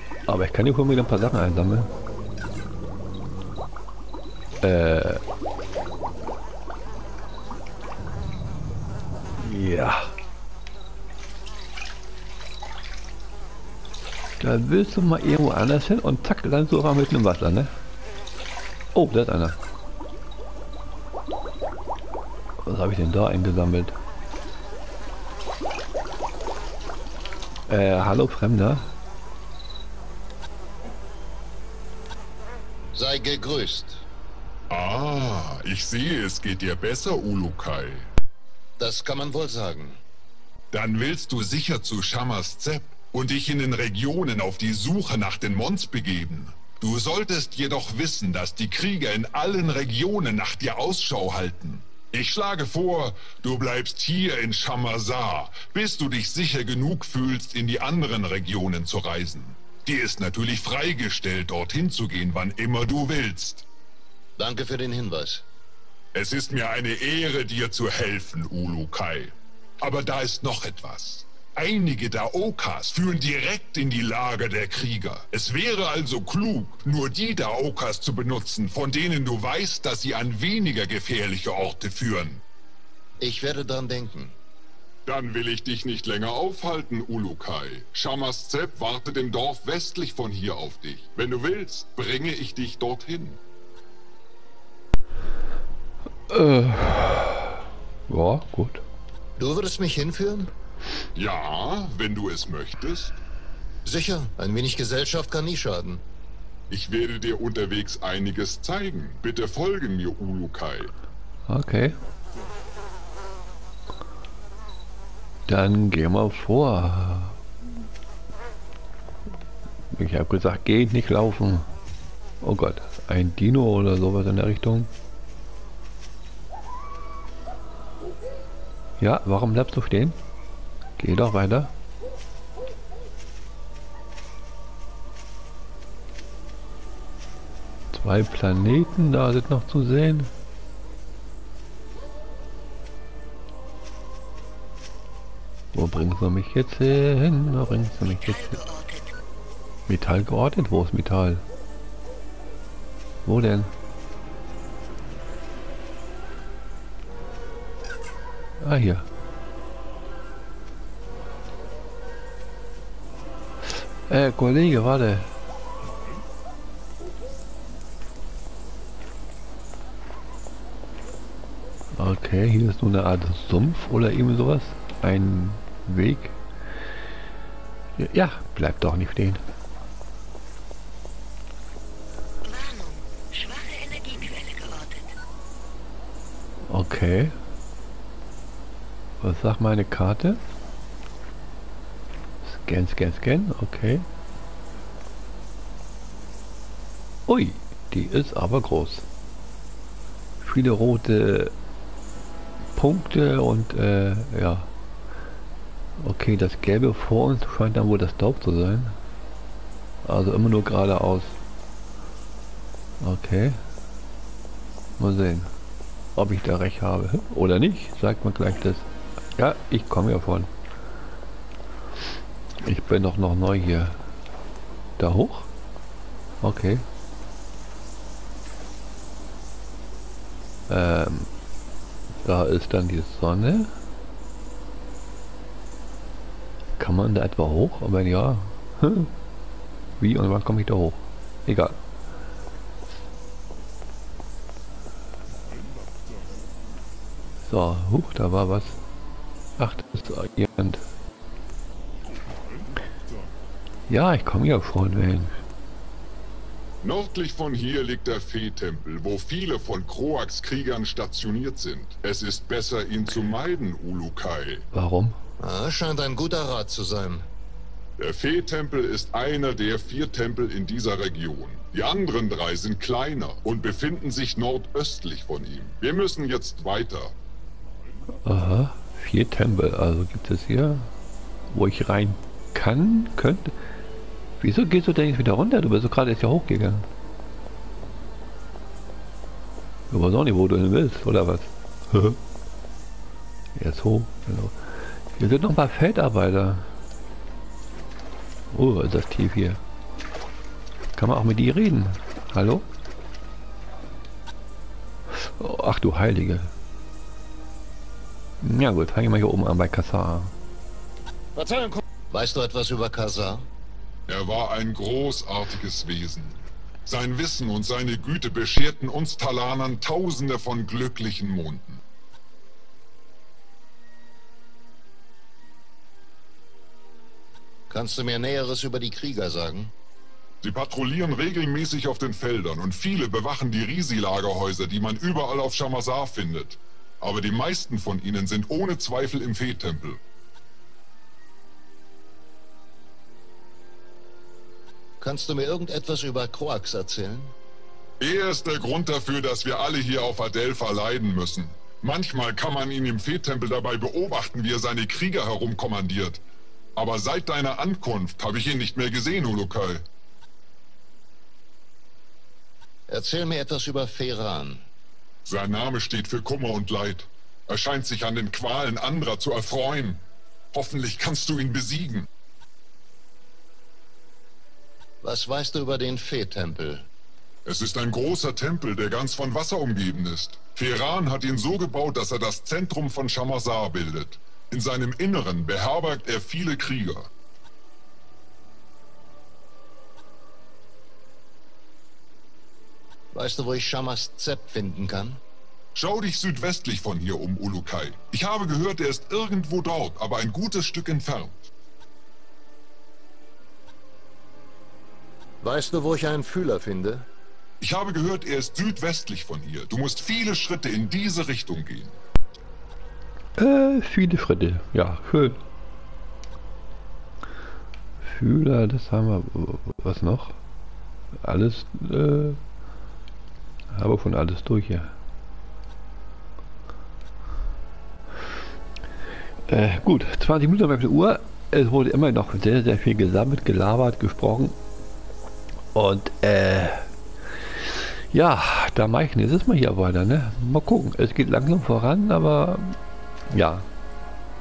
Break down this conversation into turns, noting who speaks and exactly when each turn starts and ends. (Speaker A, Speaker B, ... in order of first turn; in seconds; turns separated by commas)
Speaker A: 0.3-1.9, Speaker A: 4.6-5.2, Speaker A: 9.4-10.1, Speaker A: 14.4-17.7, Speaker A: 18.9-19.6, Speaker A: 22.6-23.9, Speaker A: 27.7-28.9, Speaker B: 32.9-34.0, Speaker C: 34.7-38.1, Speaker B: 38.8-40.0, Speaker C: 40.7-63.7, Speaker B: 64.4-65.5, Speaker C: 66.1-82.4, Speaker B: 83.2-84.3, Speaker C: 85.1-93.4, Speaker A: 96.3-98.8, Speaker B: 99.4-100.5, Speaker C: 101.2-103.2, Speaker B: 103.8-106.0, Speaker C: 106.7-110.9, Speaker A: 111.5-112.0, Speaker A: 115.5-117.4, Speaker A: 119.9-121.7, Speaker A: 122.4-124.9, Speaker A: 129.0-130.2, Speaker A: 131.0-131.7, Speaker A: 137.9-140.3, Speaker A: 145.7-148.6, Speaker D: 148.0-149.2, Speaker A: 149.9-151.4, Speaker A: 153.2-153.7, Speaker A: 158.6-159.1, Speaker A: 164.1-165.3, Speaker A: 172.0-176.4, Speaker A: 178.0-179.4, Speaker D: 182.4-185.2, Speaker A: 186.7-187.3, Speaker A: 189.2-190.4, Speaker A: 192.4-194.1, Speaker A: 197.3-199.1, Speaker A: 200.4-201.5, Speaker A: 202.8-204.7, Speaker A: 206.0-209.0, Speaker A: 210.0-211.3, Speaker A: 213.0-213.6, Speaker A: 215.0-215.5, Speaker A: 216.2-220.5, Speaker A: 222.6-224.0, Speaker A: 225.0-225.5, Speaker A: 226.4-226.8, Speaker A: 230.7-231.3, Speaker A: 232.2-233.7, Speaker A: 236.8-239.1, Speaker A: 240.0-241.8, Speaker A: 247.4-248.8, Speaker A: 249.6-250.8, Speaker A: 253.9-255.3, Speaker C: 256.8-264.6, Speaker A: 264.7-265.2, Speaker B: 265.4-267.2, Speaker C: 268.0-277.1, Speaker A: 278.2-280.9, Speaker A: 281.5-283.5, Speaker A: 284.4-286.9, Speaker A: 289.9-292.2, Speaker A: 293.6-294.6, Speaker A: 295.2-296.7, Speaker A: 298.5-299.6, Speaker A: 301.0-302.7, Speaker A: 305.2-306.5, Speaker A: 308.4-310.3, Speaker B: 311.4-313.5, Speaker C: 314.1-321.8, Speaker B: 327.7-329.7, Speaker C: 330.4-340.0, Speaker B: 345.0-347.3, Speaker C: 348.0-356.2, Speaker C: 356.8-359.9, Speaker B: 362.9-364.6, Speaker C: 365.3-370.0, Speaker C: 370.5-372.1, Speaker B: 375.0-376.9, Speaker C: 377.4-387.1, Speaker B: 393.1-395.2, Speaker C: 395.8-401.5, Speaker B: 405.4-407.1, Speaker C: 407.6-412.0, Speaker A: 413.4-415.4, Speaker A: 418.0-420.4, Speaker A: 421.2-422.4, Speaker A: 423.7-424.9, Speaker A: 429.5-434.6, Speaker A: 435.7-436.9, Speaker A: 438.1-442.8, Speaker A: 443.3-443.7